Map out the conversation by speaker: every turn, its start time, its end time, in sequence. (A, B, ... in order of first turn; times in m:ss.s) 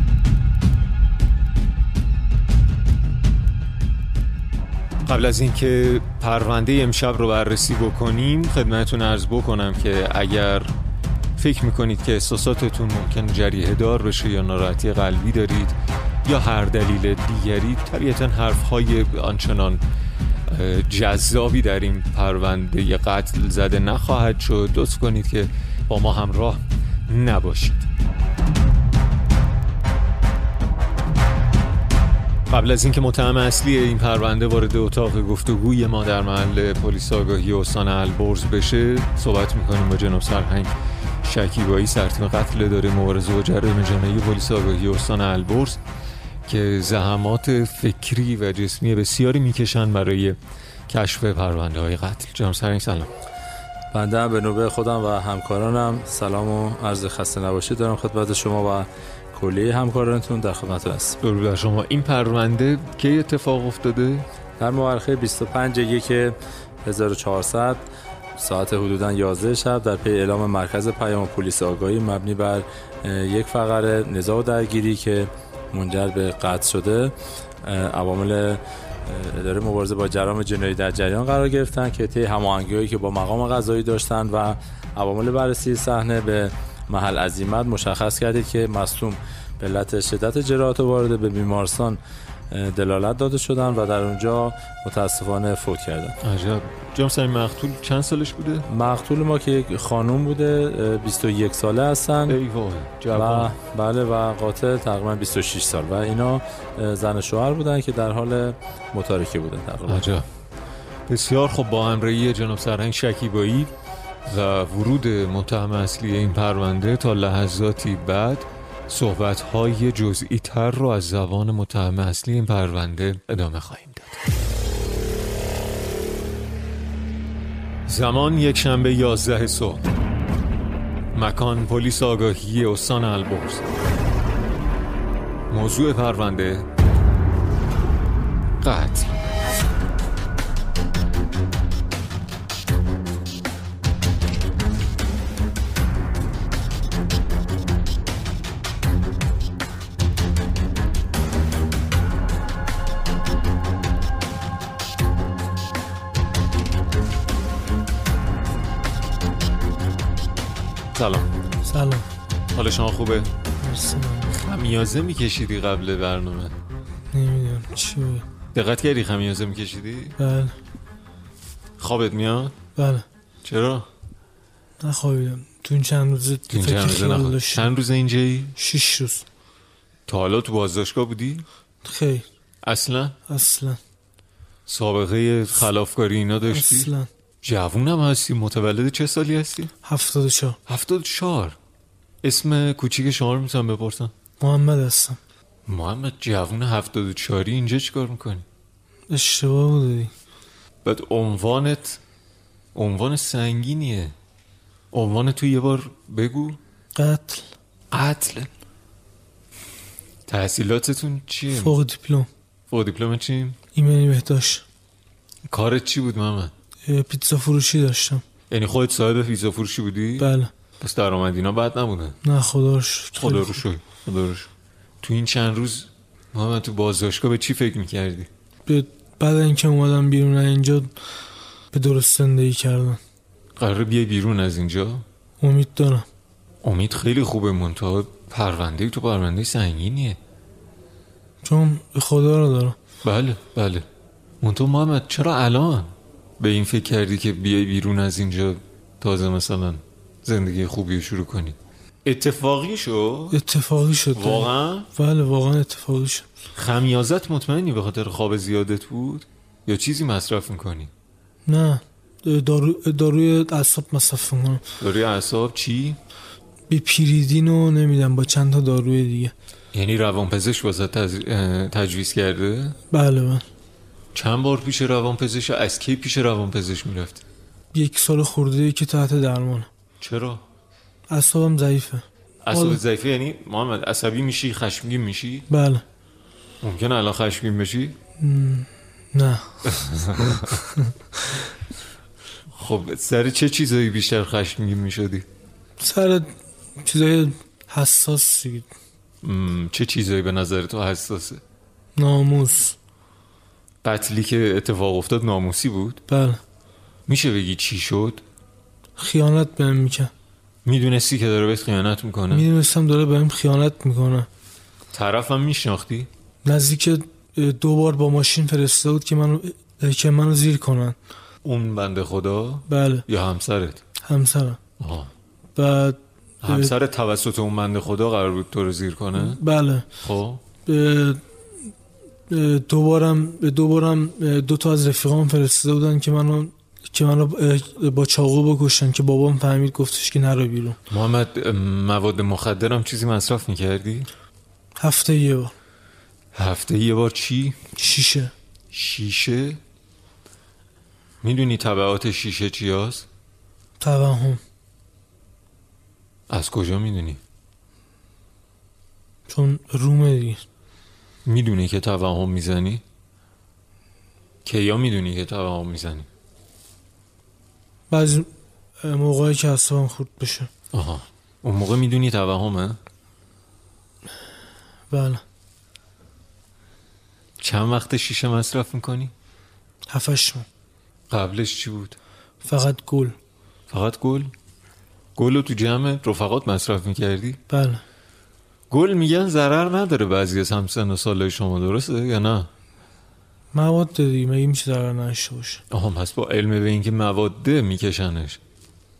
0:05.0-0:10.8 A
0:11.4-0:19.8 A
0:20.5-0:27.9 A
0:32.5-0:45.8 A
0:46.4-0:53.1 A
0:53.9-1:01.2 B
1:01.2-1:04.3 A
1:04.6-1:07.8 B
1:08.4-1:32.0 B
1:32.5-1:36.2 B
1:36.2-1:38.6 A
1:38.7-1:42.4 B
1:42.3-1:43.5 A
1:43.1-1:50.1 B
1:49.9-1:50.2 A
1:51.1-1:53.7 A
1:54.2-2:04.2 A
2:07.8-2:09.9 A
2:11.1-2:13.6 A
2:15.5-2:16.7 A
2:18.6-2:19.2 A
2:40.9-2:41.3 A
2:41.6-2:42.1 C
2:42.5-2:43.3 A
2:43.6-2:44.4 C
2:44.3-2:46.6 A
2:47.1-2:48.2 C
2:48.5-2:50.2 A
2:50.2-2:50.6 C
2:51.8-2:52.6 A
2:52.8-2:53.0 C
2:53.4-2:53.9 A
2:54.8-2:57.7 C
2:56.5-2:58.5 A
2:58.6-2:59.2 C
3:00.1-3:01.4 A
3:01.8-3:02.2 C
3:02.6-3:03.2 A
3:03.3-3:03.8 C
3:04.7-3:06.9 A
3:06.5-3:07.1 C
3:07.4-3:09.7 A
3:09.8-3:10.6 C
3:10.7-3:11.6 A
3:12.2-3:14.1 A
3:14.4-3:15.2 C
3:15.6-3:18.4 A
3:19.1-3:20.1 C
3:20.8-3:22.0 A
3:22.7-3:24.1 A
3:24.9-3:26.6 A
3:27.0-3:27.5 C
3:27.9-3:28.5 A
3:30.3-3:31.8 A
3:31.5-3:32.3 C
3:32.7-3:33.6 A
3:33.7-3:34.6 C
3:35.5-3:36.5 A
3:36.8-3:38.2 C
3:38.5-3:42.2 A
3:40.2-3:40.5 C
3:42.2-3:43.6 C
3:43.2-3:44.5 A
3:45.0-3:48.3 A
3:48.7-3:50.9 C
3:51.7-3:53.0 C
3:53.6-3:55.0 A
3:55.4-3:56.1 C
3:56.6-4:00.2 A
4:01.4-4:02.8 C
4:03.0-4:03.8 A
4:04.4-4:13.4 A
4:13.3-4:16.2 C
4:14.1-4:14.9 A
4:16.5-4:20.9 A
4:21.5-4:24.6 C
4:24.8-4:26.0 A
4:26.7-4:29.3 C
4:29.7-4:32.8 A
4:32.9-4:33.4 C
4:34.1-4:37.2 A
4:37.7-4:39.7 C
4:40.0-4:40.4 A
4:41.1-4:42.8 C
4:42.4-4:45.5 A
4:45.5-4:45.8 C
4:46.6-4:48.0 A
4:48.2-4:51.4 C
4:49.6-4:50.6 A
4:52.5-4:55.2 A
4:55.8-4:58.7 C
4:59.2-5:01.4 A
5:02.0-5:02.8 C
5:03.8-5:06.0 A
5:06.1-5:06.4 C
5:07.1-5:08.2 A
5:09.0-5:10.1 C
5:10.6-5:12.5 A
5:12.3-5:14.3 C
5:14.9-5:16.1 A
5:16.4-5:21.0 C
5:21.4-5:23.8 A
5:22.7-5:23.0 C
5:24.0-5:24.6 C
5:24.8-5:25.1 A
5:25.6-5:26.7 C
5:26.4-5:29.4 A
5:29.2-5:29.9 C
5:30.0-5:30.4 A
5:30.6-5:31.2 C
5:32.3-5:40.8 C
5:40.9-5:44.1 A
5:44.8-5:45.5 C
5:46.3-5:47.6 A
5:47.7-5:48.3 C
5:48.7-5:49.6 A
5:51.2-5:53.1 A
5:53.8-5:54.4 C
5:56.3-5:57.2 A
5:59.3-6:00.4 C
6:01.2-6:02.8 A
6:04.4-6:06.1 A
6:07.9-6:08.3 C
6:08.8-6:10.5 C
6:10.7-6:12.8 A
6:14.9-6:15.2 C
6:17.4-6:19.1 A
6:19.9-6:20.4 C
6:21.1-6:22.0 A
6:22.4-6:23.1 C
6:23.7-6:24.3 A
6:25.2-6:27.4 A
6:27.5-6:27.8 C
6:28.7-6:32.5 A
6:33.5-6:35.6 C
6:35.7-6:38.4 A